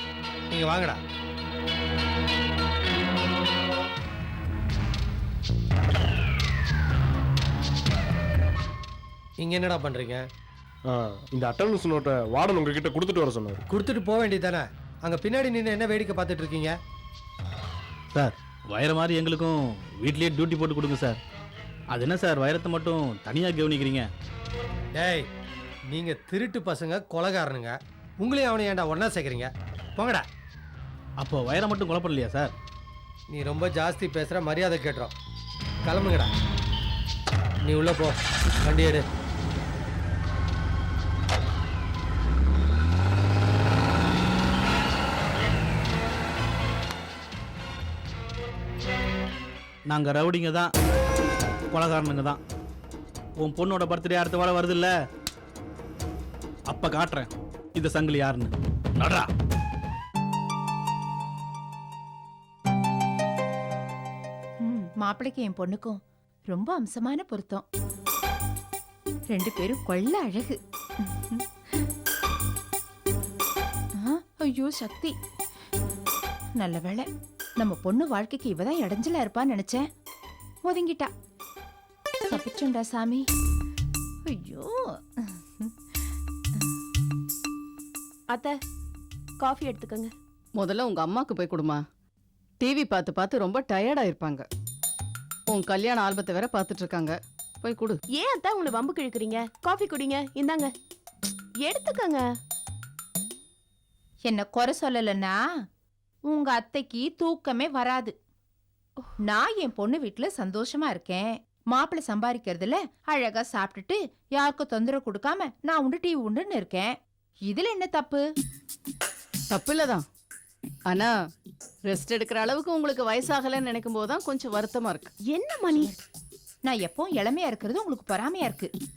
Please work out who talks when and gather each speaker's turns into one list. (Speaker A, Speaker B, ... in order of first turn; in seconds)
Speaker A: 0.5-1.0, 9.4-10.2, 13.7-16.7, 25.0-25.2, 25.9-30.2, 33.3-35.1, 35.9-36.3, 37.7-39.0
Speaker B: 11.3-13.6, 90.6-91.8, 92.6-94.5, 95.5-98.0, 119.5-120.0, 120.9-121.2, 121.8-125.1
Speaker C: 18.2-21.2, 21.9-24.1, 31.2-32.5, 49.9-50.7, 51.7-52.4, 53.4-55.0, 56.7-59.3
Speaker D: 64.6-66.0, 66.5-67.6, 69.3-71.4, 74.0-75.1, 76.6-77.1, 77.6-79.8, 80.7-81.1, 82.3-83.2, 84.3-84.7, 104.3-105.4, 106.3-108.1, 109.3-117.0, 117.5-118.2, 126.7-128.7
Speaker E: 89.4-90.1, 98.1-100.7, 101.6-102.2, 125.3-125.9